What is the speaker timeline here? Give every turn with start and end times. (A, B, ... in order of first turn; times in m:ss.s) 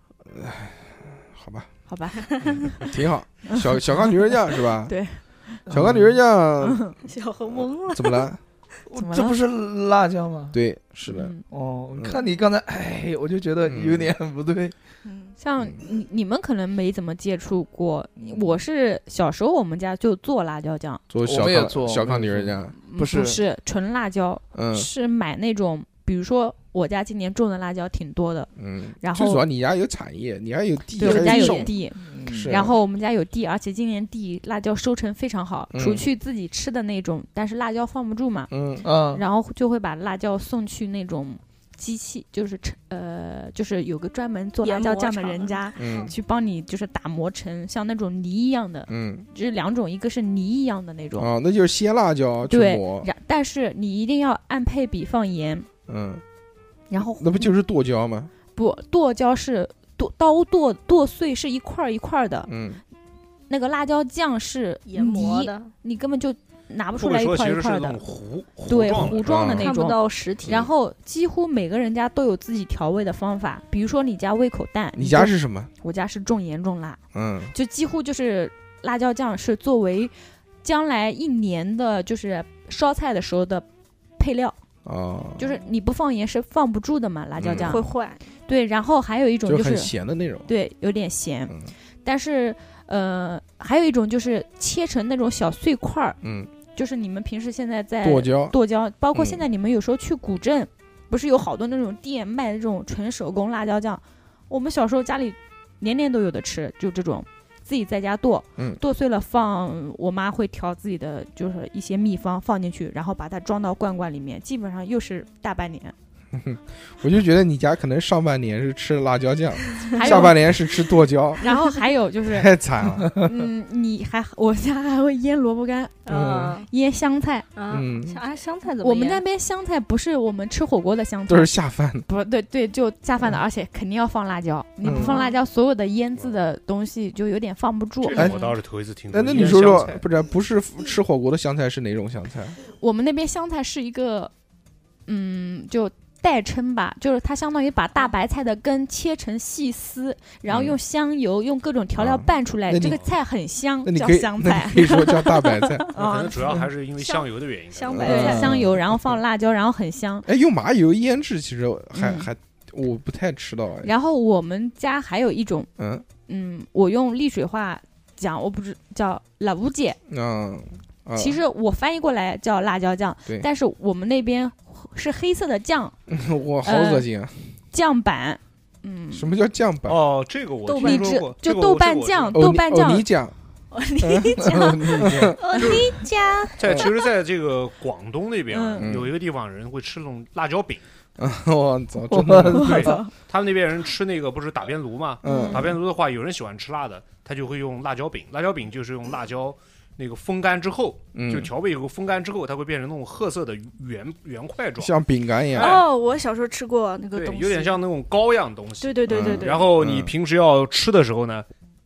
0:00.2-0:01.7 A
0:01.9-0:02.8 B
0:02.3-0:02.6 C
0:02.8-0:04.9 A
0:03.4-0:04.3 B
0:04.8-0:05.6 B
0:05.7-0:06.2 D
0:05.7-0:06.9 A
0:06.6-0:06.9 B
0:07.0-0:08.3 C
0:07.5-0:08.4 A
0:08.9-0:10.6 D
0:09.0-0:09.4 B
0:10.5-0:11.3 A
0:11.1-0:11.4 B
0:11.5-0:14.7 D
0:12.0-0:12.2 A
0:13.6-0:14.1 A
0:15.0-0:15.4 C
0:15.4-0:21.0 B
0:18.2-0:18.5 D
0:21.1-0:22.7 A
0:21.2-0:23.4 D
0:22.8-0:28.5 B
0:24.5-0:24.9 A
0:28.6-0:31.7 A
0:29.0-0:29.4 B
0:31.0-0:38.5 B
0:31.0-0:31.7 C
0:31.5-0:32.6 D
0:32.2-0:32.7 A
0:35.7-0:36.0 A
0:38.5-0:38.8 A
0:38.8-0:39.2 D
0:39.1-0:51.3 B
0:44.6-0:46.1 C
0:45.8-0:46.1 A
0:48.9-0:49.2 A
0:51.2-0:53.1 A
0:52.5-0:55.7 B
0:55.9-0:56.2 A
0:56.9-0:57.5 B
0:57.2-0:58.3 A
0:58.5-1:02.5 B
1:02.5-1:02.8 A
1:03.5-1:08.0 B
1:04.8-1:05.7 C
1:07.0-1:09.3 E
1:08.7-1:17.0 B
1:09.1-1:09.7 A
1:09.5-1:10.6 C
1:15.0-1:15.7 A
1:17.1-1:17.5 A
1:17.5-1:23.6 B
1:24.2-1:24.6 B
1:24.8-1:25.4 A
1:25.4-1:27.9 B
1:27.4-1:27.8 A
1:27.6-1:28.2 C
1:28.4-1:29.9 B
1:29.4-1:30.5 A
1:30.4-1:36.2 B
1:36.2-1:36.5 A
1:36.7-1:55.9 B
1:38.0-1:38.6 A
1:39.1-1:39.4 A
1:56.3-2:01.4 A
1:59.7-2:00.3 C
1:59.9-2:00.5 B
2:01.4-2:02.5 B
2:02.3-2:03.1 A
2:03.1-2:07.5 B
2:06.0-2:06.7 C
2:06.1-2:06.6 A
2:07.5-2:09.2 C
2:07.7-2:08.2 A
2:08.8-2:11.5 B
2:11.3-2:12.1 A
2:12.0-2:18.3 B
2:14.8-2:15.4 C
2:14.8-2:15.2 A
2:18.0-2:20.0 E
2:18.2-2:18.5 C
2:19.1-2:22.6 A
2:22.8-2:24.3 B
2:25.0-2:35.4 B
2:30.5-2:30.8 A
2:32.0-2:33.0 A
2:32.8-2:33.1 E
2:33.8-2:35.9 A
2:35.9-2:36.6 B
2:35.9-2:38.2 E
2:37.0-2:38.6 C
2:37.9-2:39.1 A
2:38.0-2:40.3 B
2:38.1-2:38.6 D
2:40.2-2:43.9 A
2:41.9-2:42.3 B
2:43.8-2:45.7 B
2:45.8-2:46.0 A
2:46.2-2:50.0 B
2:50.1-2:51.4 A
2:51.1-2:56.0 B
2:56.1-2:57.5 A
2:56.6-2:57.1 B
2:57.7-2:59.3 B
2:59.1-3:00.0 A
2:59.9-3:02.4 E
3:00.6-3:01.2 C
3:00.8-3:03.0 B
3:02.3-3:03.3 A
3:03.7-3:06.9 C
3:04.0-3:05.7 A
3:04.5-3:05.4 D
3:05.6-3:05.9 E
3:06.6-3:10.8 E
3:08.5-3:08.9 B
3:08.8-3:09.1 A
3:11.2-3:13.0 A
3:12.1-3:13.0 D
3:12.5-3:24.9 E
3:12.7-3:13.1 B
3:15.2-3:15.8 A
3:15.2-3:15.7 B
3:21.1-3:21.5 A
3:24.8-3:25.8 A
3:25.5-3:25.8 E
3:25.6-3:27.8 C
3:27.1-3:31.4 E
3:28.8-3:29.7 C
3:29.1-3:30.1 A